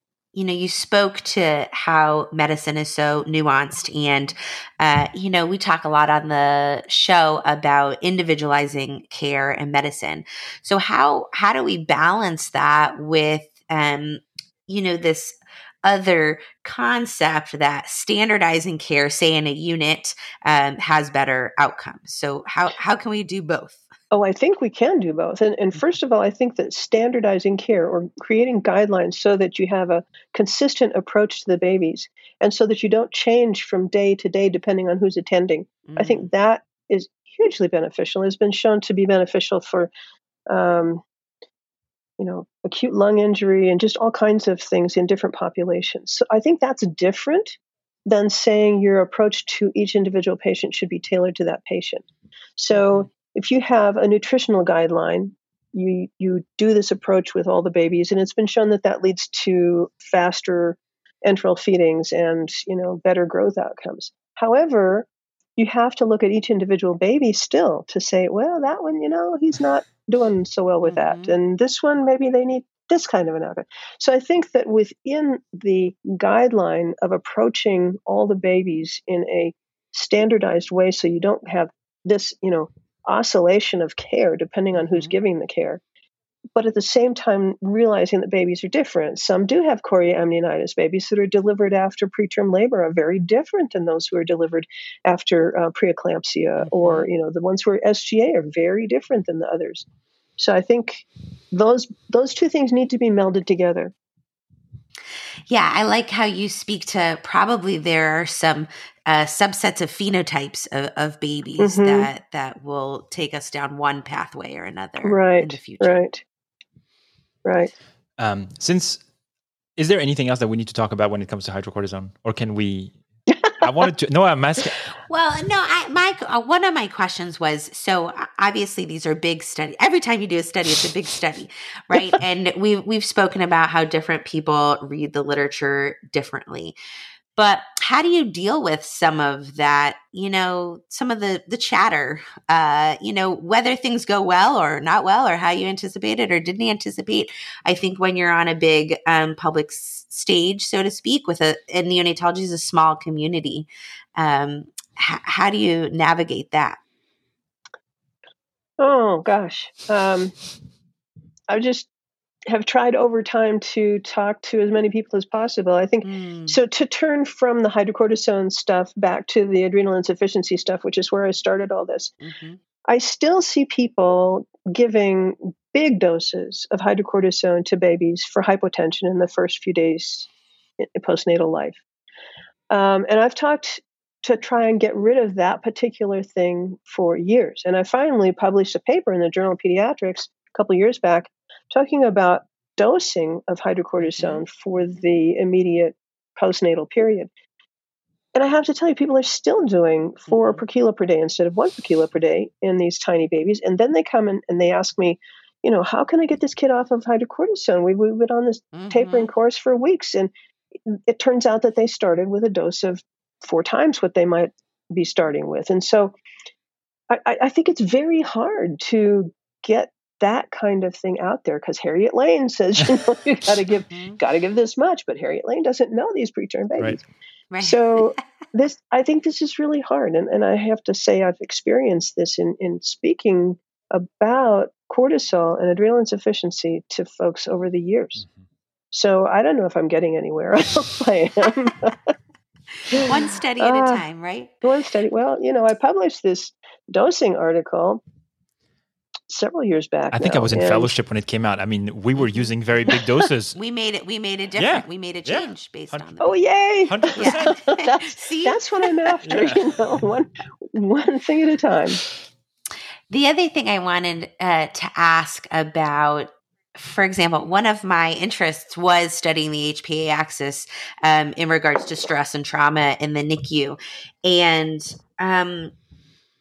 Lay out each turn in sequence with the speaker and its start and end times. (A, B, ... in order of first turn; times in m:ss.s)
0:00.3-0:23.8 A
0:24.1-0:39.9 B
0:35.9-0:36.3 A
0:40.5-0:41.0 B
0:42.2-0:52.0 B
0:52.6-1:25.8 B
1:10.8-1:11.3 A
1:24.8-1:25.1 A
1:26.6-1:39.8 B
1:36.6-1:37.1 A
1:40.4-1:43.9 B
1:45.5-1:56.0 A
1:51.6-1:52.1 B
1:55.0-1:56.2 B
1:57.4-1:57.7 B
1:58.2-1:59.0 C
1:59.8-2:03.0 C
2:03.6-2:04.8 C
2:05.1-2:16.8 A
2:17.4-2:36.8 A
2:38.8-2:40.4 B
2:41.5-2:41.9 B
2:42.5-2:52.1 B
2:46.0-2:46.6 A
2:52.2-2:52.6 A
2:52.9-3:01.8 B
3:02.7-3:17.3 B
3:14.0-3:14.4 A
3:18.4-3:30.3 B
3:20.3-3:20.6 A
3:28.7-3:29.3 A
3:30.9-3:36.2 B
3:37.1-3:47.0 B
3:43.9-3:44.2 A
3:47.5-3:48.1 A
3:47.6-3:58.2 B
3:58.9-4:02.0 B
4:02.9-4:04.6 A
4:02.9-4:04.0 B
4:04.6-4:08.0 B
4:09.3-4:10.9 B
4:10.1-4:13.6 C
4:13.6-4:16.4 A
4:14.6-4:16.1 C
4:16.2-4:22.0 B
4:16.9-4:17.6 C
4:17.2-4:19.1 A
4:19.3-4:19.6 C
4:23.1-4:35.8 A